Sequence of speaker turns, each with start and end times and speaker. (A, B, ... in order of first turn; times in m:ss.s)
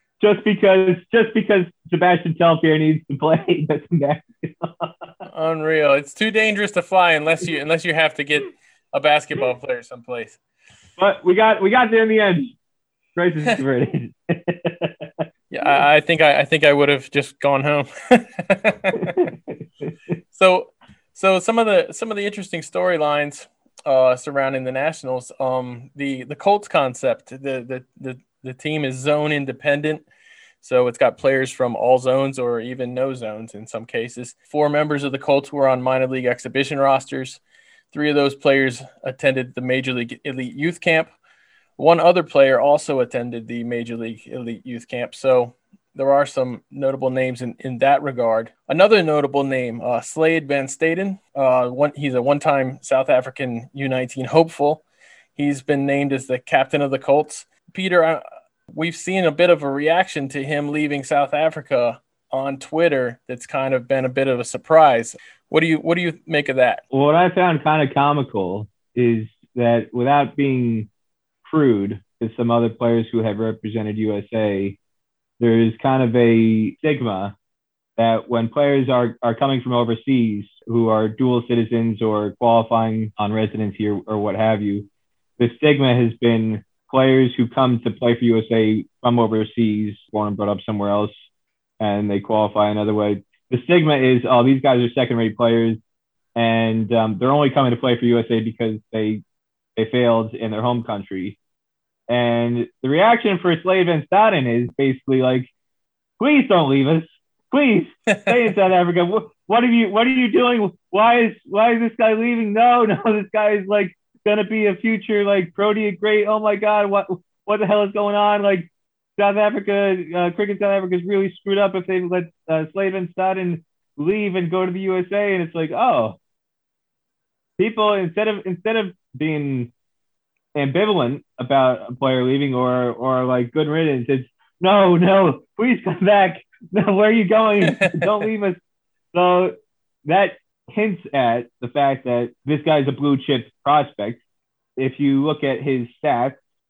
0:00.2-0:05.1 A
0:05.3-0:10.4 B
0:11.0-0:12.5 A
0:13.1-0:15.1 A
0:15.5-0:19.2 B
0:18.9-0:19.9 A
0:20.3-0:30.0 B
0:30.6-0:37.4 B
0:37.9-0:41.1 B
0:41.8-0:54.8 B
0:55.4-1:06.8 B
1:06.9-1:10.9 A
1:11.4-1:14.8 A
1:15.4-1:17.3 A
1:18.0-1:24.8 A
1:25.4-1:31.1 A
1:31.8-1:35.8 A
1:36.4-1:39.2 A
1:39.8-1:41.4 A
1:42.1-1:45.5 A
1:46.2-2:06.2 A
2:07.6-2:09.7 A
2:10.5-2:18.6 A
2:17.7-2:18.1 B
2:19.1-2:19.5 A
2:20.0-2:24.2 A
2:24.8-2:26.4 A